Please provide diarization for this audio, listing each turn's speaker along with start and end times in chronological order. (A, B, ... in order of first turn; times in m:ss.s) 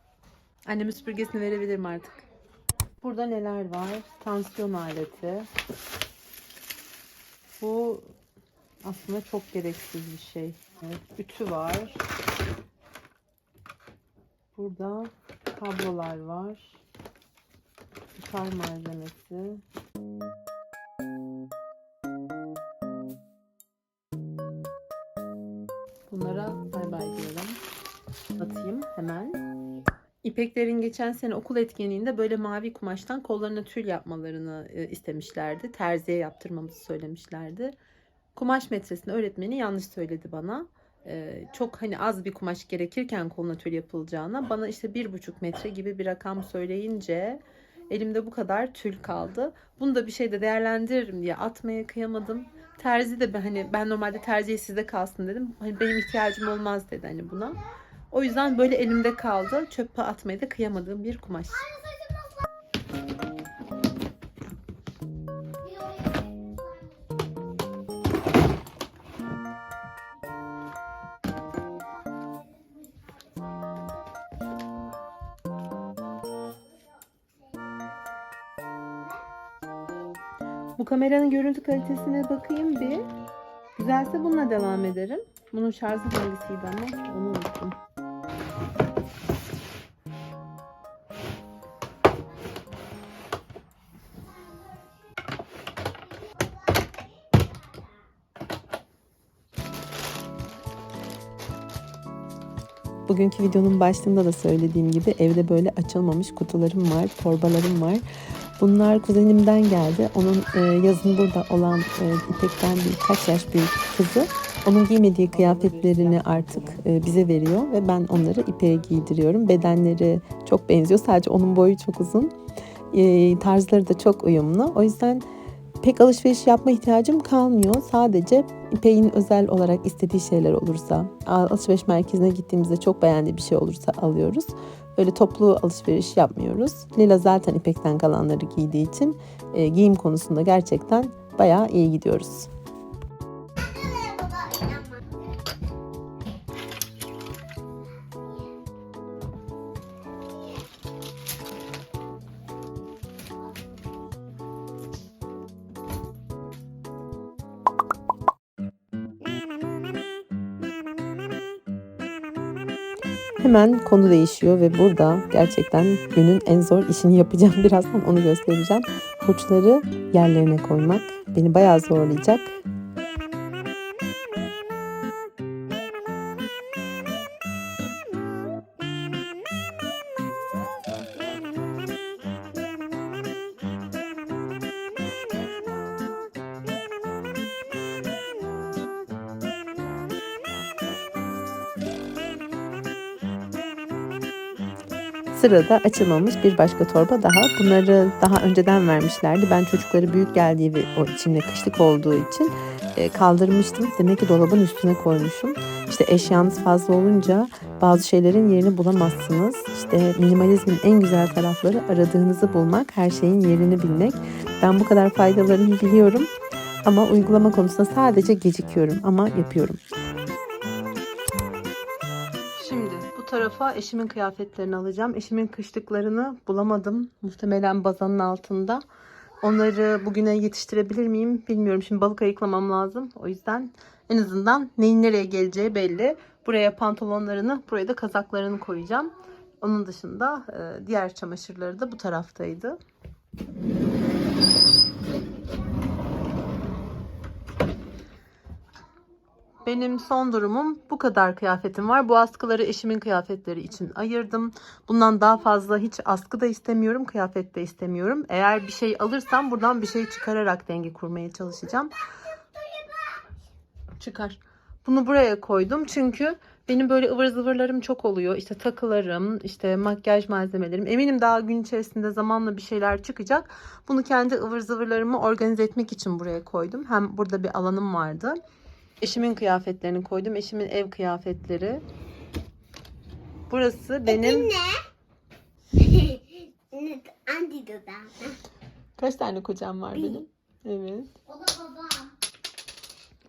0:00.6-0:02.2 A
0:03.0-0:05.5 A
0:07.6-0:08.1 A
0:08.8-0:12.0 A
0:14.5-0:16.8 A
0:18.2-0:19.6 A
0:26.1-0:27.6 A
0:28.4-0:29.4 A
0:30.2-0:37.7 A
0:38.4-0:57.6 A
0:58.1-1:01.7 A
1:01.9-1:02.2 B
1:05.6-1:07.2 B
1:12.1-1:13.9 B
1:17.6-1:18.1 B
1:20.8-1:23.0 A
1:23.8-1:27.8 A
1:34.4-1:34.9 B
1:35.9-1:38.0 B
1:43.1-1:48.0 A
1:48.6-2:02.3 A
2:02.9-2:05.2 A
2:05.8-2:22.5 A
2:23.7-2:25.1 B
2:28.0-2:28.6 B
2:43.4-2:52.5 A
3:15.3-3:36.3 A
3:36.8-3:39.8 A
3:42.6-3:48.8 A
3:49.4-4:02.8 A
4:09.6-4:21.9 A
4:22.5-4:23.3 B
4:24.0-4:38.4 A
4:39.0-4:41.8 A
4:43.5-4:44.6 A
4:44.1-4:44.8 B
4:45.8-4:48.4 B
4:49.0-4:51.1 A
4:51.2-4:52.1 B